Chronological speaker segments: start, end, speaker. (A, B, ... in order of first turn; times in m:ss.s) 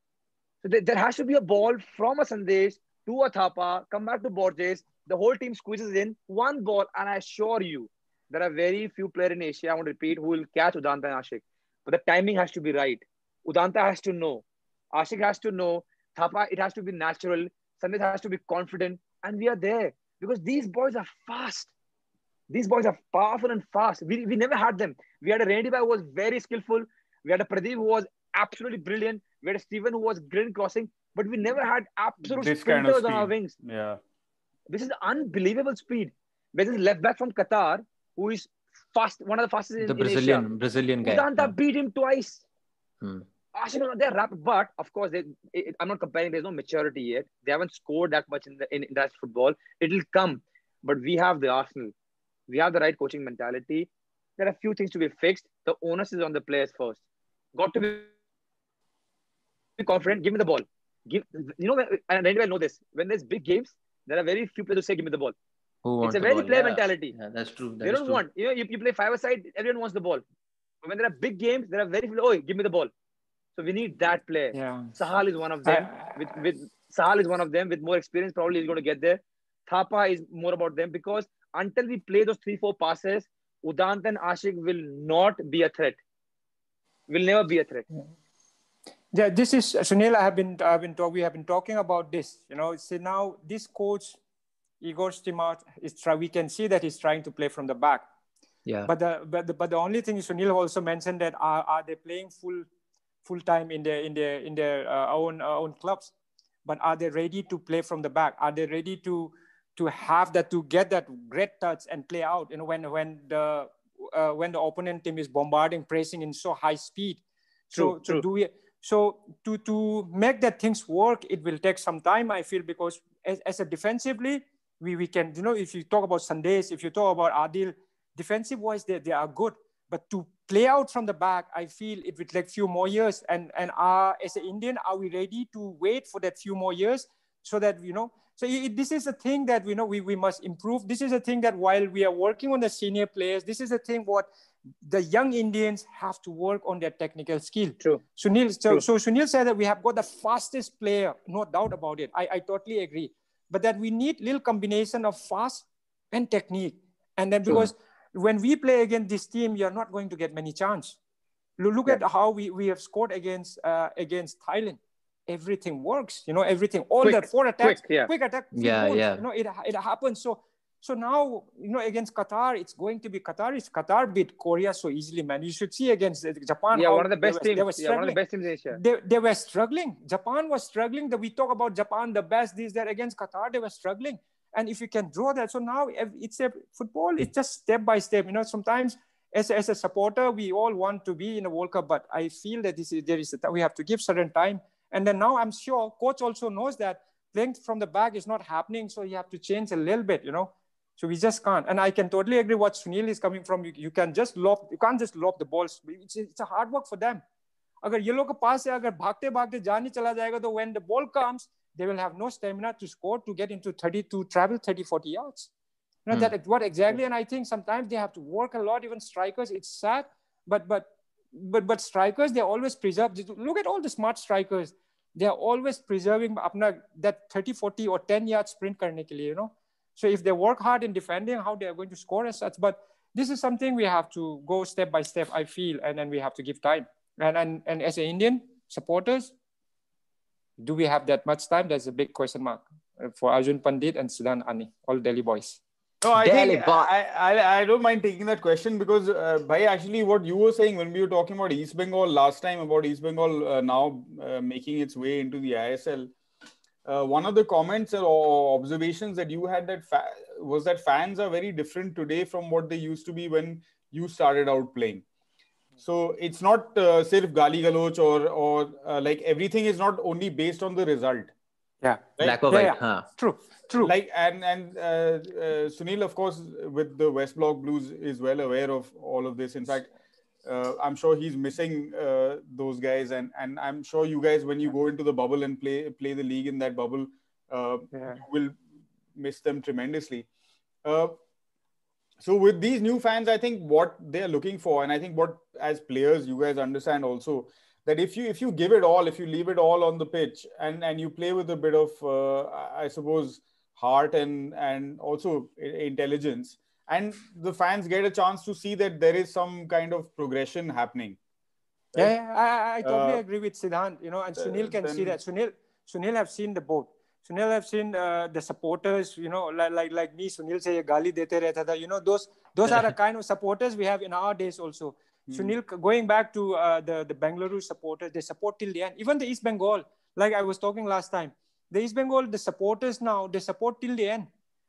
0:00.6-0:21.7 A
0:22.5-0:33.6 A
0:32.3-0:34.0 B
0:34.7-0:40.5 A
0:39.8-0:41.5 C
0:41.0-0:42.4 A
0:43.0-0:43.2 C
0:43.5-0:51.9 A
0:52.5-0:57.0 A
0:57.6-0:58.1 A
0:59.8-1:05.3 A
1:05.8-1:08.2 C
1:06.0-1:07.1 A
1:07.8-1:10.2 A
1:10.8-1:12.9 A
1:13.6-1:26.0 A
1:14.5-1:14.9 D
1:15.6-1:16.1 D
1:27.1-1:27.8 A
1:29.1-1:34.2 D
1:34.8-1:38.0 D
1:38.6-1:38.9 C
1:38.9-1:42.6 D
1:43.2-1:46.1 D
1:46.6-2:24.3 D
1:57.7-1:58.2 A
2:24.8-2:41.0 D
2:41.6-2:58.2 D
2:47.0-2:48.1 A
2:48.5-2:49.2 C
2:56.7-2:58.8 A
2:58.7-3:27.2 D
3:27.8-3:35.5 D
3:36.0-3:59.3 D
4:00.6-4:05.6 D
4:06.0-4:16.1 B
4:06.2-4:06.9 C
4:16.8-4:25.0 B
4:25.8-4:31.3 B
4:31.8-4:33.9 D
4:32.2-4:33.1 C
4:33.8-4:39.9 B
4:40.4-4:48.6 B
4:47.9-4:48.2 D
4:49.1-4:50.3 B
4:50.8-4:51.2 B
4:52.2-5:11.2 B
5:12.0-5:34.3 D
5:12.8-5:13.2 B
5:14.4-5:15.2 B
5:25.3-5:25.6 B